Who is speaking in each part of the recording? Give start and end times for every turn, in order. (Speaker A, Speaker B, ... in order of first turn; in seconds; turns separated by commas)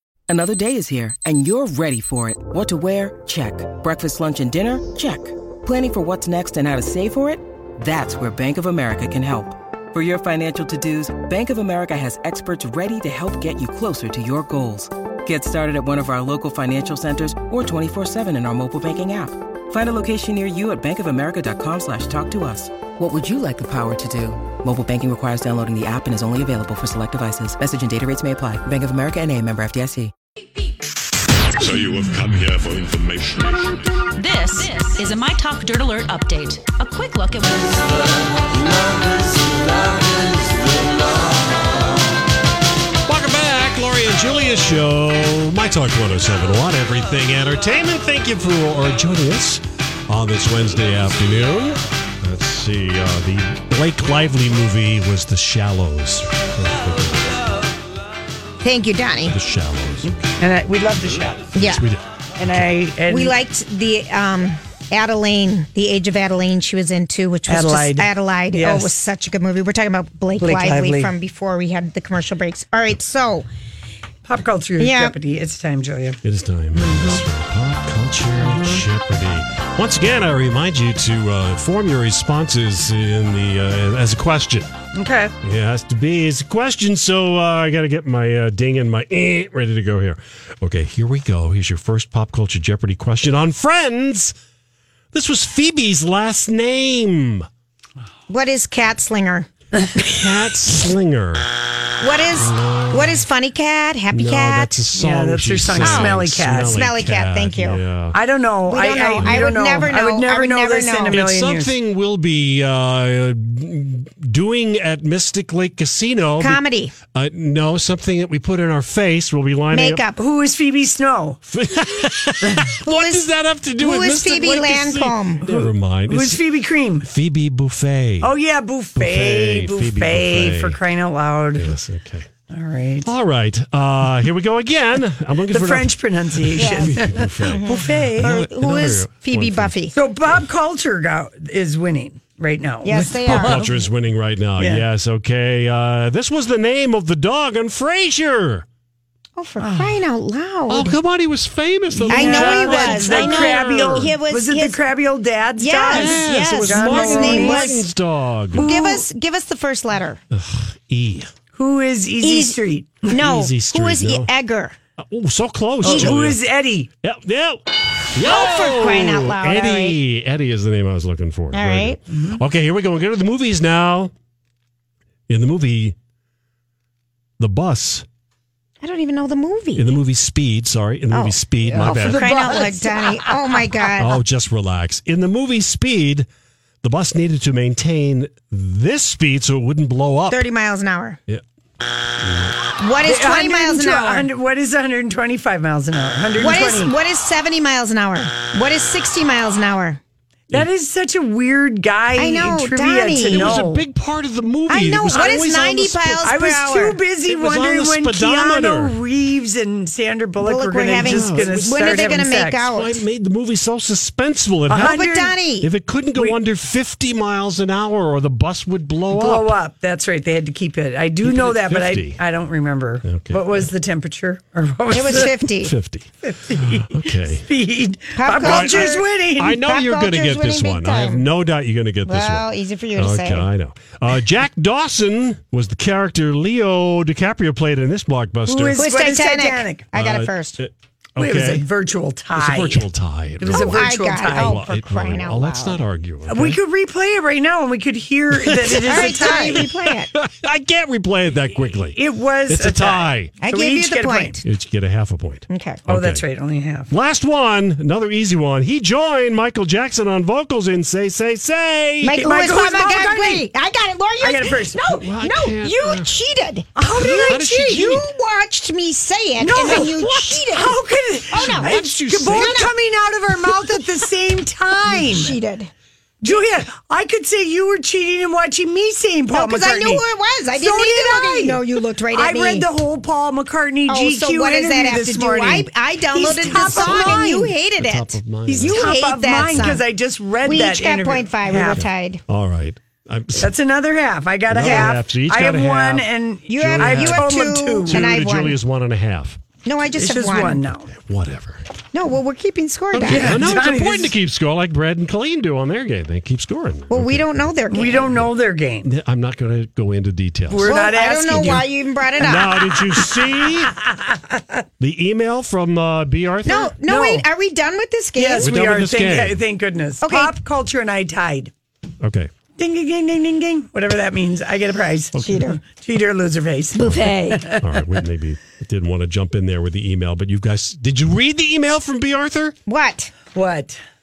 Speaker A: 0.3-30.1, Speaker B: 31.6-33.9, Speaker C: 34.1-38.2, Speaker D: 43.0-57.4, Speaker E: 58.6-59.4, Speaker D: 59.3-60.1, Speaker F: 60.0-61.5, Speaker E: 61.5-61.8, Speaker D: 61.6-62.8, Speaker F: 62.4-63.3, Speaker E: 63.1-73.5, Speaker F: 67.5-68.9, Speaker F: 70.4-71.1, Speaker F: 74.2-76.2, Speaker E: 74.8-75.2, Speaker D: 76.2-84.7, Speaker F: 76.7-77.2, Speaker F: 78.4-78.8, Speaker F: 84.9-85.3, Speaker D: 85.4-94.3, Speaker D: 95.1-97.5, Speaker E: 98.3-99.5, Speaker D: 100.1-101.5, Speaker E: 102.0-104.8, Speaker D: 102.3-103.2, Speaker D: 104.1-108.2, Speaker F: 104.9-106.8, Speaker E: 105.8-106.2, Speaker E: 106.7-107.8, Speaker F: 108.1-111.7, Speaker E: 108.7-111.2, Speaker D: 109.1-109.5, Speaker D: 111.1-120.0, Speaker E: 116.4-116.9, Speaker E: 119.7-120.2, Speaker F: 120.2-121.4, Speaker D: 121.5-126.5, Speaker E: 122.8-125.4, Speaker F: 125.5-127.1, Speaker D: 127.0-128.3, Speaker F: 128.2-131.7, Speaker D: 129.0-130.8, Speaker D: 131.6-132.3, Speaker F: 132.5-133.1, Speaker D: 133.0-139.8, Speaker F: 135.5-138.4, Speaker E: 136.6-136.9, Speaker E: 137.5-139.9, Speaker F: 139.9-143.8, Speaker E: 142.8-143.6, Speaker D: 143.2-148.7, Speaker F: 144.6-144.8, Speaker E: 149.3-150.9, Speaker F: 149.6-150.0, Speaker D: 150.7-154.1, Speaker F: 151.9-157.8, Speaker E: 152.1-154.8, Speaker E: 155.6-157.9, Speaker D: 155.8-158.7, Speaker F: 158.5-159.0, Speaker E: 158.5-160.2, Speaker D: 160.3-161.3, Speaker F: 161.5-163.1, Speaker E: 162.2-162.6, Speaker E: 163.1-164.8, Speaker D: 163.2-164.3, Speaker D: 165.0-166.4, Speaker F: 165.8-166.9, Speaker E: 165.8-166.2, Speaker D: 167.0-167.6, Speaker D: 168.1-174.1, Speaker E: 168.2-170.0, Speaker E: 171.5-172.0, Speaker F: 172.1-172.4, Speaker D: 175.3-175.9, Speaker D: 177.4-178.0, Speaker E: 178.8-179.9, Speaker D: 179.8-182.4, Speaker E: 181.1-184.2, Speaker F: 181.7-183.6, Speaker D: 184.0-186.2, Speaker D: 186.8-190.4, Speaker E: 190.3-191.2, Speaker D: 192.2-192.6, Speaker E: 192.8-194.3, Speaker F: 193.0-196.9, Speaker E: 196.4-200.0, Speaker F: 200.5-203.8, Speaker E: 202.2-203.6, Speaker D: 203.3-206.2, Speaker E: 204.7-207.0, Speaker F: 205.1-205.7, Speaker F: 206.2-212.7, Speaker D: 207.3-209.0, Speaker E: 210.4-213.0, Speaker D: 210.9-212.1, Speaker D: 212.7-215.1, Speaker F: 214.7-215.3, Speaker E: 214.7-215.7, Speaker D: 215.6-219.5, Speaker F: 219.1-225.3, Speaker D: 221.2-222.2, Speaker D: 223.0-223.7, Speaker E: 224.9-225.7, Speaker D: 225.6-227.4, Speaker F: 226.2-229.6, Speaker E: 228.2-231.2, Speaker D: 228.3-238.8, Speaker E: 232.1-233.5, Speaker F: 238.5-239.9, Speaker E: 238.8-240.6, Speaker D: 239.9-241.6, Speaker F: 241.2-242.9, Speaker D: 242.3-246.6, Speaker F: 243.4-244.6, Speaker E: 243.5-245.8, Speaker F: 246.3-249.6, Speaker D: 248.5-253.3, Speaker E: 248.7-250.1, Speaker F: 251.9-254.4, Speaker E: 253.4-254.4, Speaker D: 254.4-256.2, Speaker E: 255.5-255.8, Speaker F: 255.9-256.9, Speaker D: 256.9-262.2, Speaker E: 262.0-270.8, Speaker F: 262.1-263.4, Speaker F: 264.2-265.0, Speaker D: 264.9-266.1, Speaker F: 266.8-267.9, Speaker D: 267.0-268.0, Speaker F: 269.4-275.4, Speaker E: 271.3-272.7, Speaker D: 271.3-272.7, Speaker E: 274.9-275.7, Speaker F: 276.2-280.0, Speaker E: 279.3-282.7, Speaker F: 280.5-287.5, Speaker E: 283.9-289.8, Speaker D: 286.5-289.8, Speaker F: 288.5-291.8, Speaker E: 290.4-292.2, Speaker D: 291.7-293.5, Speaker F: 293.4-298.1, Speaker D: 294.5-299.4, Speaker E: 294.6-294.9, Speaker E: 296.5-298.6, Speaker E: 299.6-300.6, Speaker F: 299.9-300.9, Speaker D: 300.9-301.6, Speaker E: 301.9-303.5, Speaker D: 302.9-307.3, Speaker F: 303.1-304.1, Speaker E: 306.9-308.1, Speaker F: 307.7-308.9, Speaker D: 308.8-310.9, Speaker F: 310.5-311.6, Speaker E: 310.6-312.7, Speaker D: 312.2-313.7, Speaker F: 313.4-314.6, Speaker D: 314.8-316.7, Speaker E: 316.4-318.7, Speaker F: 316.9-317.2, Speaker F: 318.2-321.5, Speaker D: 318.4-319.4, Speaker E: 320.0-320.4, Speaker D: 322.0-322.3, Speaker F: 322.6-327.7, Speaker E: 325.2-325.6, Speaker E: 326.7-327.4, Speaker D: 326.8-332.5, Speaker E: 332.6-333.1, Speaker F: 333.3-333.8